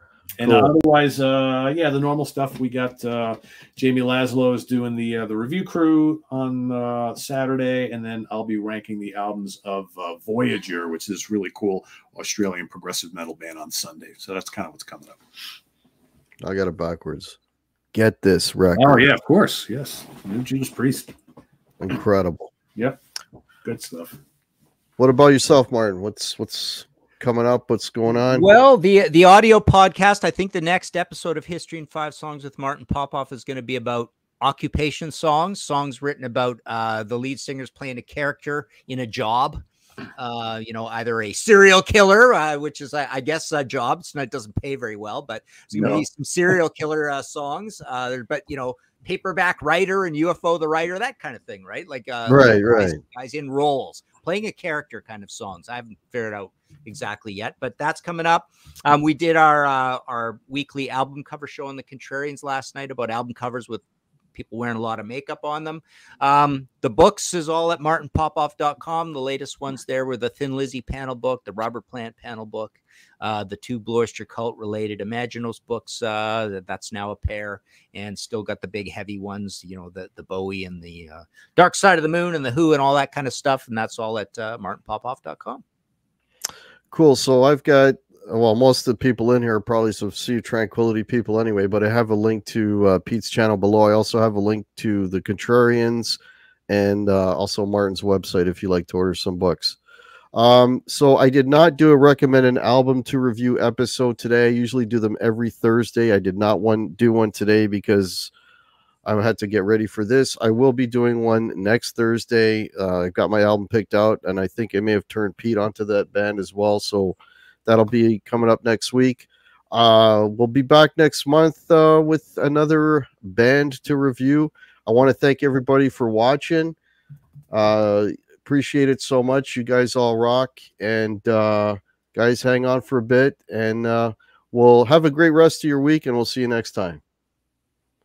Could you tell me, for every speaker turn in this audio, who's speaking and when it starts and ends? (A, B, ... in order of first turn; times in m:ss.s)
0:00.4-0:15.2 A
0:00.4-0:00.7 B
0:16.4-0:17.4 B
0:17.9-0:19.1 B
0:18.7-0:21.1 A
0:21.8-0:22.5 B
0:23.6-0:24.2 A
0:25.0-0:28.4 B
0:28.3-0:39.6 C
0:40.2-1:03.8 C
0:45.7-0:46.0 B
0:52.3-0:53.0 B
1:04.3-1:25.6 C
1:26.9-1:39.8 B
1:40.3-1:48.3 B
1:49.0-2:06.8 B
2:07.5-2:17.0 B